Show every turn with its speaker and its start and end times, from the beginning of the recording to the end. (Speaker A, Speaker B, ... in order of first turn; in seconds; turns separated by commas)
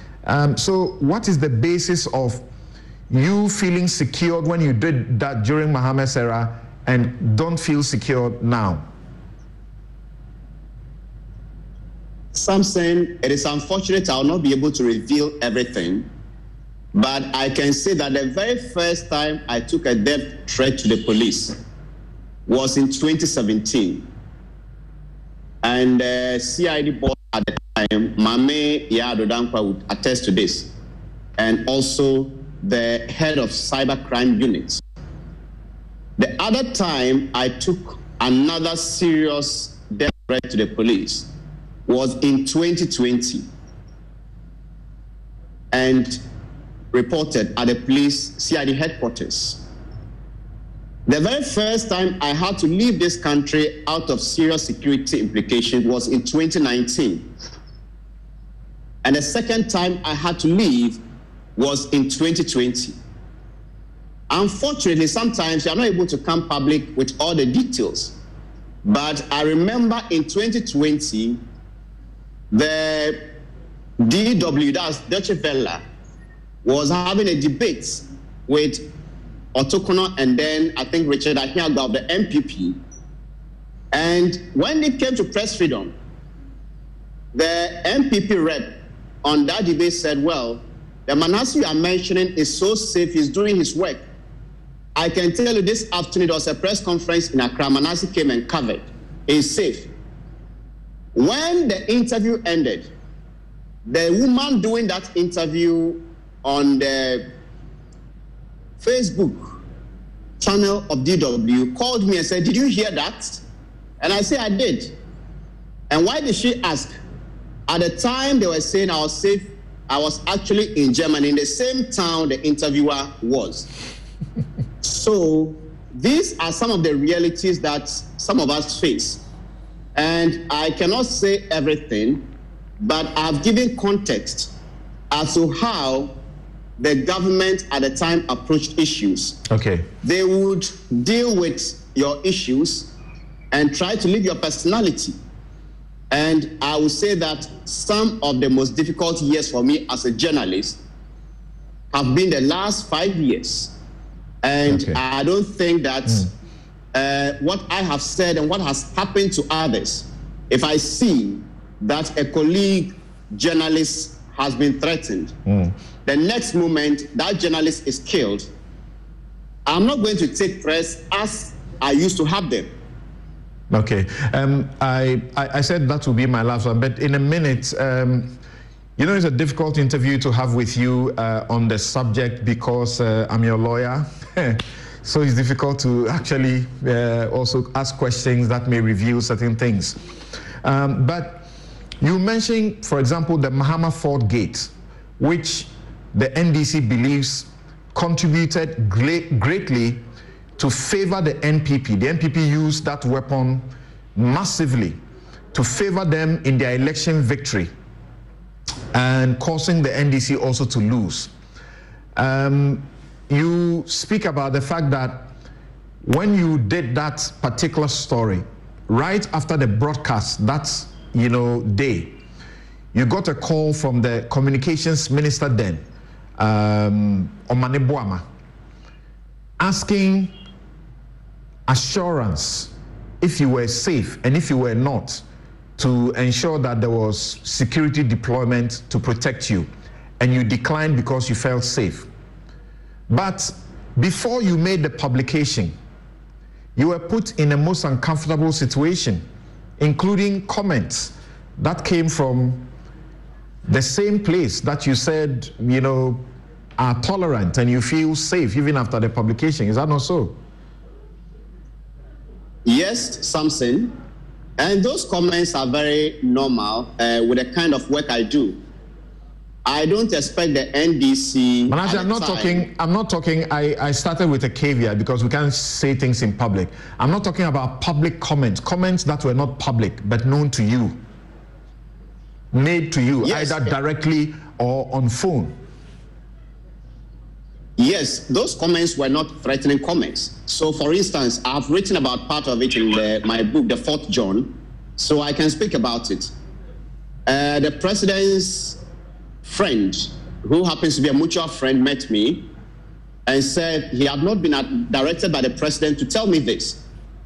Speaker A: 0.2-2.4, Speaker A: 3.1-8.8, Speaker B: 12.3-16.1, Speaker B: 16.9-21.6, Speaker B: 22.5-24.1, Speaker B: 25.6-30.7, Speaker B: 31.4-34.8, Speaker B: 36.2-41.3, Speaker B: 41.9-43.5, Speaker B: 45.7-46.2, Speaker B: 46.9-49.6, Speaker B: 51.0-57.3, Speaker B: 59.0-61.0, Speaker B: 61.5-63.0, Speaker B: 64.3-68.1, Speaker B: 68.8-71.4, Speaker B: 72.5-73.2, Speaker B: 74.0-75.8, Speaker B: 76.6-78.8, Speaker B: 79.5-82.8, Speaker B: 83.9-85.9, Speaker B: 87.3-94.0, Speaker B: 95.0-99.9, Speaker B: 101.1-102.9, Speaker B: 103.8-107.2, Speaker B: 108.8-109.6, Speaker B: 110.4-113.4, Speaker B: 114.0-114.9, Speaker B: 115.9-117.0, Speaker B: 117.7-123.7, Speaker B: 124.8-129.2, Speaker B: 129.9-132.2, Speaker B: 132.8-134.5, Speaker B: 135.1-136.1, Speaker B: 136.8-139.4, Speaker A: 139.5-139.9, Speaker B: 140.0-142.9, Speaker B: 143.5-145.2, Speaker B: 146.1-150.8, Speaker B: 151.9-153.7, Speaker B: 154.4-156.3, Speaker A: 154.7-155.0, Speaker B: 156.9-165.3, Speaker A: 165.4-165.7, Speaker B: 166.0-168.5, Speaker B: 169.7-172.7, Speaker A: 173.7-178.3, Speaker A: 179.0-190.0, Speaker A: 190.6-191.4, Speaker A: 192.0-200.0, Speaker A: 200.6-205.0, Speaker A: 205.5-207.7, Speaker A: 208.9-211.3, Speaker A: 212.2-215.3, Speaker A: 216.0-222.2, Speaker A: 222.9-225.8, Speaker A: 226.4-228.2, Speaker A: 229.6-230.3, Speaker A: 231.7-235.2, Speaker A: 235.8-239.7, Speaker A: 240.2-242.1, Speaker A: 243.1-245.7, Speaker A: 246.8-249.2, Speaker A: 249.8-252.7, Speaker A: 253.7-256.2, Speaker A: 256.8-260.4, Speaker B: 262.6-263.9, Speaker B: 264.6-268.6, Speaker B: 269.6-272.6, Speaker A: 271.7-281.0, Speaker A: 282.5-285.5, Speaker B: 283.2-283.8, Speaker B: 287.8-296.3, Speaker B: 297.3-298.8, Speaker B: 299.4-302.4, Speaker B: 303.2-306.8